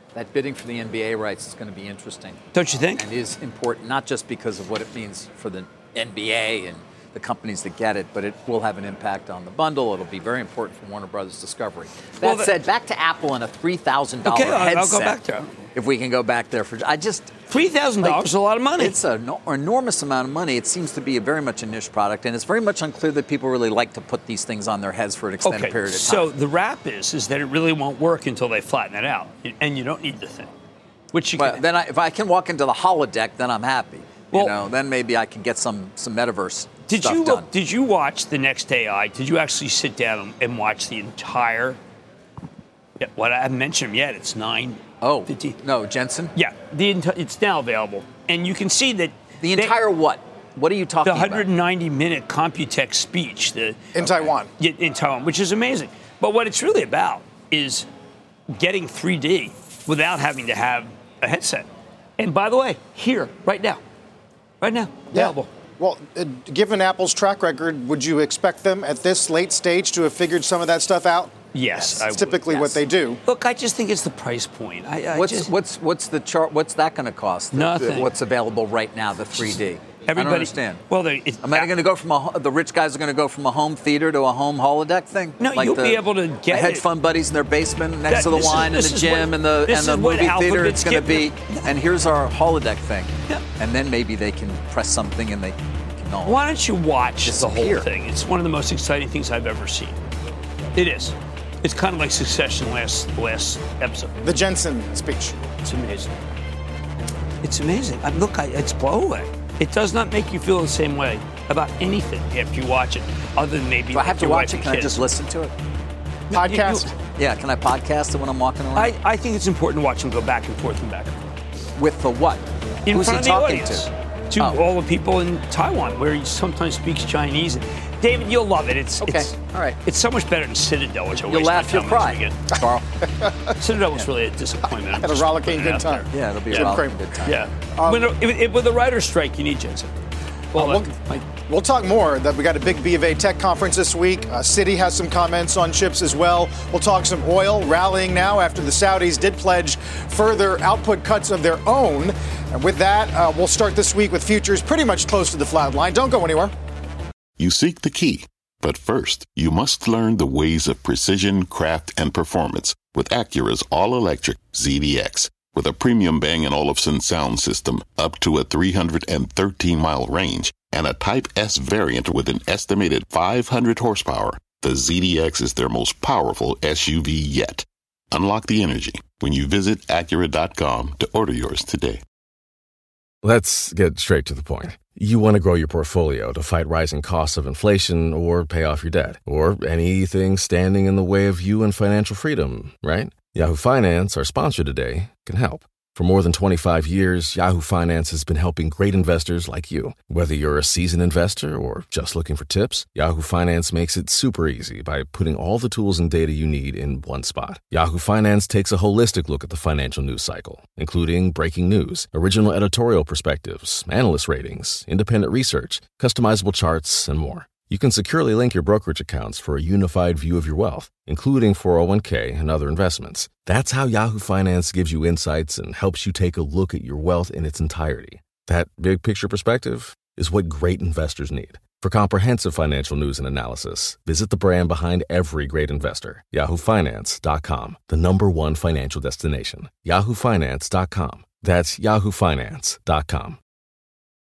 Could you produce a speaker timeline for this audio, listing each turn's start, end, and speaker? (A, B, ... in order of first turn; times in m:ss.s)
0:00.1-0:15.2 A
0:02.5-0:03.0 B
0:12.2-0:12.5 B
0:14.2-0:15.6 B
0:15.7-0:17.5 A
0:17.5-0:19.0 B
0:18.0-0:26.3 A
0:25.4-0:30.5 B
0:31.1-0:31.6 B
0:31.4-0:37.5 A
0:36.9-0:41.8 B
0:43.0-0:45.6 B
0:45.0-0:46.3 A
0:46.3-0:49.8 B
0:49.4-0:51.4 A
0:51.0-0:53.9 B
0:53.9-0:54.5 C
0:54.0-0:54.3 A
0:54.6-0:57.8 B
0:58.5-1:01.7 B
1:02.2-1:03.8 B
1:04.6-1:05.5 B
1:05.1-1:11.4 C
1:11.5-1:15.5 B
1:12.0-1:13.2 C
1:15.1-1:20.8 A
1:17.5-1:18.1 B
1:19.4-1:21.7 B
1:21.4-1:36.4 A
1:25.4-1:26.8 B
1:28.1-1:31.7 B
1:36.2-1:40.0 B
1:37.2-1:37.9 A
1:40.7-1:44.1 B
1:44.2-1:45.4 C
1:45.6-1:46.1 B
1:47.4-1:55.0 B
1:53.9-1:55.5 A
1:56.3-1:56.9 B
1:56.3-1:56.9 C
1:57.2-1:58.9 A
1:58.7-2:01.2 B
2:01.8-2:03.9 A
2:02.8-2:12.4 B
2:09.0-2:09.8 A
2:11.2-2:12.8 A
2:13.6-2:19.9 B
2:14.9-2:17.0 C
2:16.1-2:17.4 A
2:17.8-2:18.1 C
2:20.5-2:20.9 C
2:20.5-2:21.2 B
2:21.5-2:36.5 C
2:37.4-3:02.0 D
3:03.2-4:03.4 E